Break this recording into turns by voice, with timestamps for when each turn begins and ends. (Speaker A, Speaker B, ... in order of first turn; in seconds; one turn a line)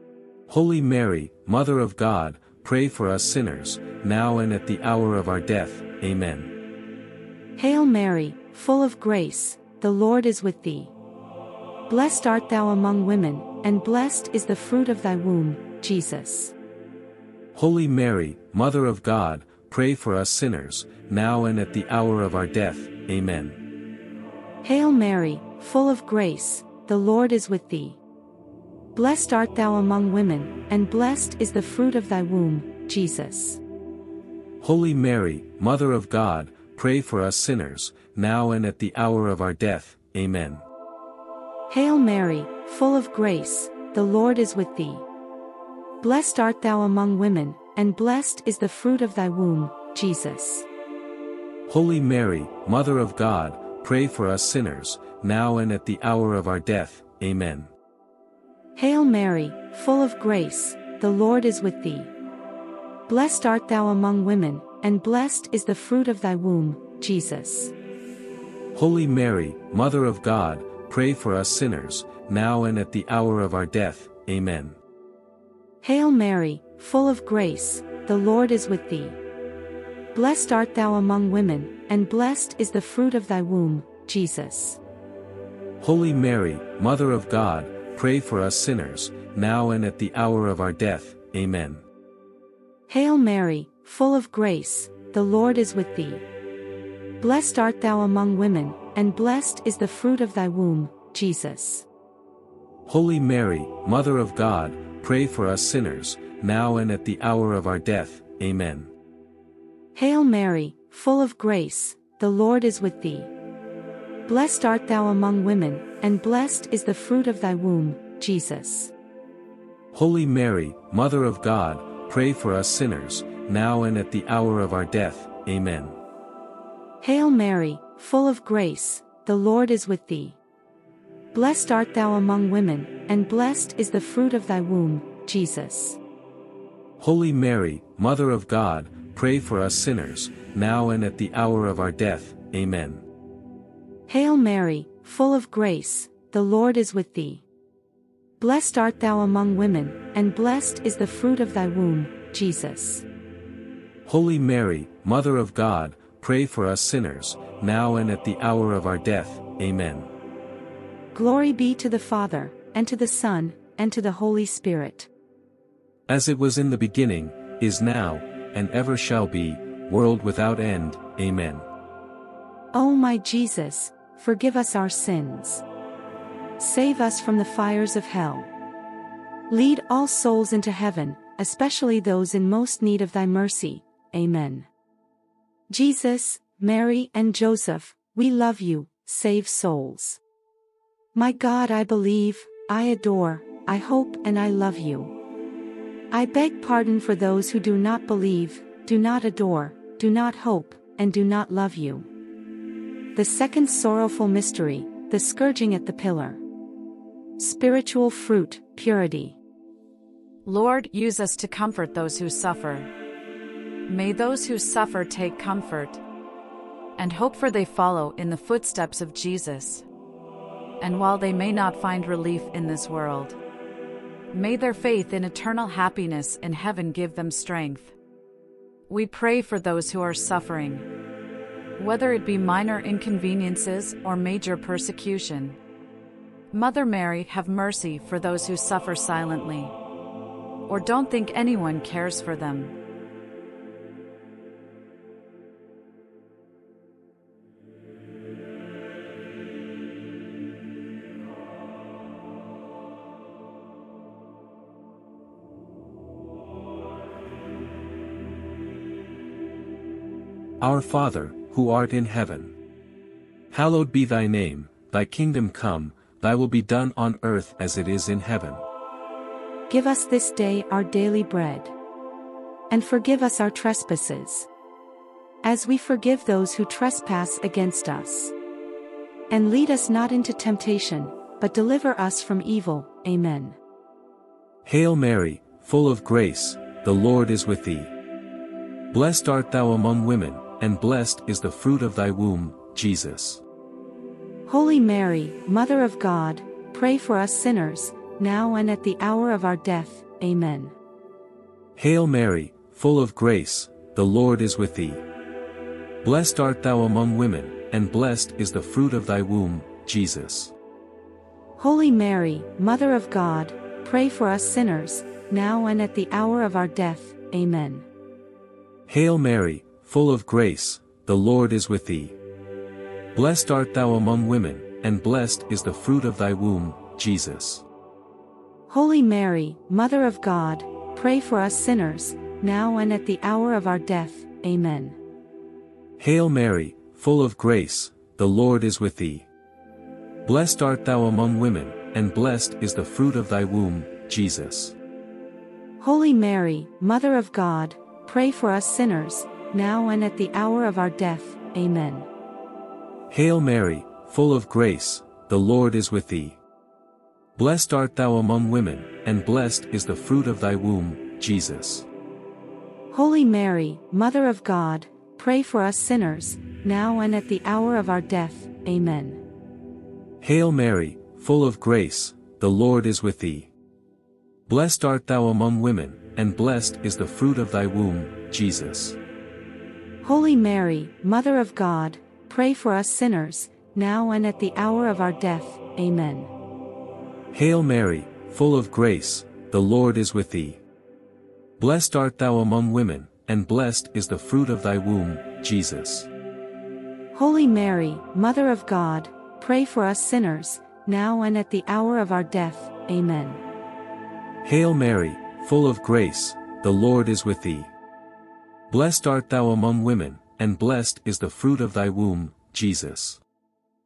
Speaker A: 0.5-6.5
Speaker B: 7.6-10.9
Speaker B: 11.9-16.5
Speaker A: 17.5-23.6
Speaker B: 24.6-28.0
Speaker B: 28.9-33.6
Speaker A: 34.6-40.6
Speaker B: 41.7-45.1
Speaker B: 46.0-50.7
Speaker A: 51.7-57.7
Speaker B: 58.8-62.1
Speaker B: 63.1-67.7
Speaker A: 68.7-74.8
Speaker B: 75.8-79.2
Speaker B: 80.1-84.8
Speaker A: 85.8-91.8
Speaker B: 92.9-96.2
Speaker B: 97.2-101.9
Speaker A: 102.9-108.9
Speaker B: 110.0-113.3
Speaker B: 114.3-118.9
Speaker A: 119.9-126.0
Speaker B: 127.0-130.4
Speaker B: 131.3-136.0
Speaker A: 137.0-143.0
Speaker B: 144.1-147.4
Speaker B: 148.4-153.1
Speaker A: 154.1-160.1
Speaker B: 161.1-165.1
Speaker A: 166.1-171.7
Speaker B: 172.7-175.6
Speaker B: 176.6-178.5
Speaker B: 179.5-184.7
Speaker B: 185.7-190.2
Speaker B: 191.2-195.1
Speaker B: 196.1-202.1
Speaker B: 203.2-206.4
Speaker B: 207.4-209.4
Speaker C: 210.4-212.9
Speaker C: 213.9-216.0
Speaker C: 217.0-219.8
Speaker C: 220.8-223.4
Speaker C: 224.3-227.9
Speaker C: 228.9-230.9
Speaker C: 231.8-235.6
Speaker C: 236.5-239.7
Speaker C: 240.7-242.7
Speaker A: 260.6-262.5
Speaker A: 263.5-268.6
Speaker B: 269.7-271.7
Speaker B: 272.7-274.5
Speaker B: 275.4-278.3
Speaker B: 279.3-283.6
Speaker A: 284.6-287.9
Speaker A: 288.9-293.4
Speaker B: 294.5-300.8
Speaker A: 301.8-305.0
Speaker A: 306.0-310.5
Speaker B: 311.6-317.9
Speaker A: 318.9-322.2
Speaker A: 323.1-327.6
Speaker B: 328.7-335.0
Speaker A: 336.0-339.3
Speaker A: 340.2-344.8
Speaker B: 345.8-352.1
Speaker A: 353.1-356.4
Speaker A: 357.4-361.9
Speaker B: 362.9-369.2
Speaker A: 370.2-373.5
Speaker A: 374.5-379.0
Speaker B: 380.0-386.3
Speaker A: 387.3-390.6
Speaker A: 391.6-396.1
Speaker B: 397.1-403.4
Speaker A: 404.4-407.7
Speaker A: 408.7-413.2